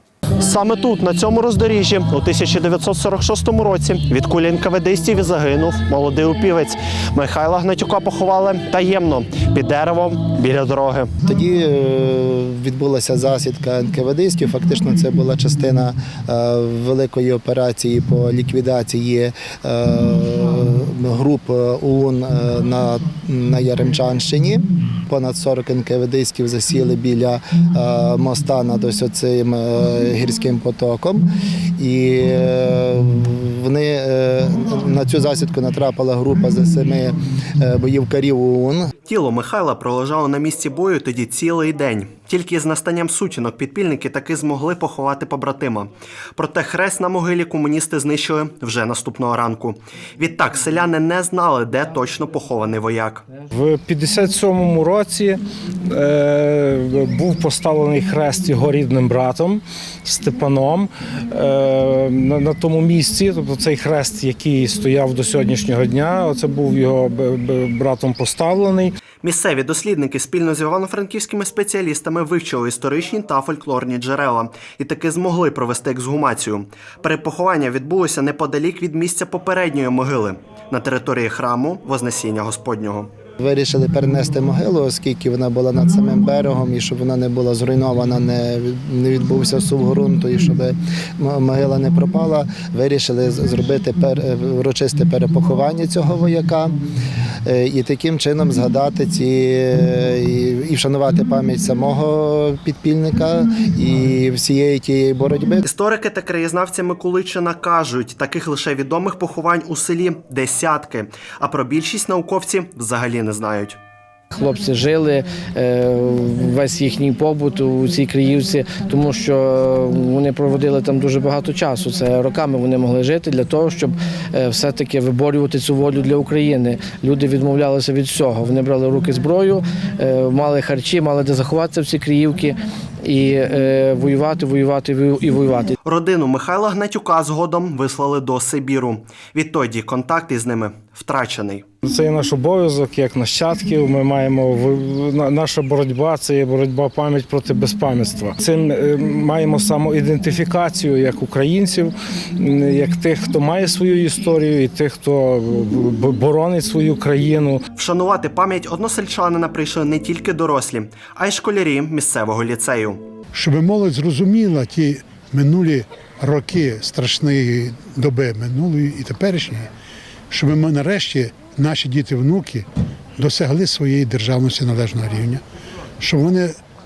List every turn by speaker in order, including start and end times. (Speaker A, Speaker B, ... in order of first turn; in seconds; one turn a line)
Speaker A: 0.4-11.1
Speaker B: 11.2-31.3
Speaker B: 31.8-38.9
Speaker A: 39.1-53.2
Speaker C: 53.5-68.9
Speaker A: 69.2-83.1
Speaker B: 83.4-96.8
Speaker B: 97.5-105.6
Speaker A: 105.6-113.8
Speaker D: 114.3-135.8
Speaker A: 135.9-141.6
Speaker C: 141.9-157.6
Speaker A: 157.8-163.0
Speaker E: 163.3-169.7
Speaker E: 170.3-172.7
Speaker E: 173.2-175.4
Speaker E: 176.0-176.5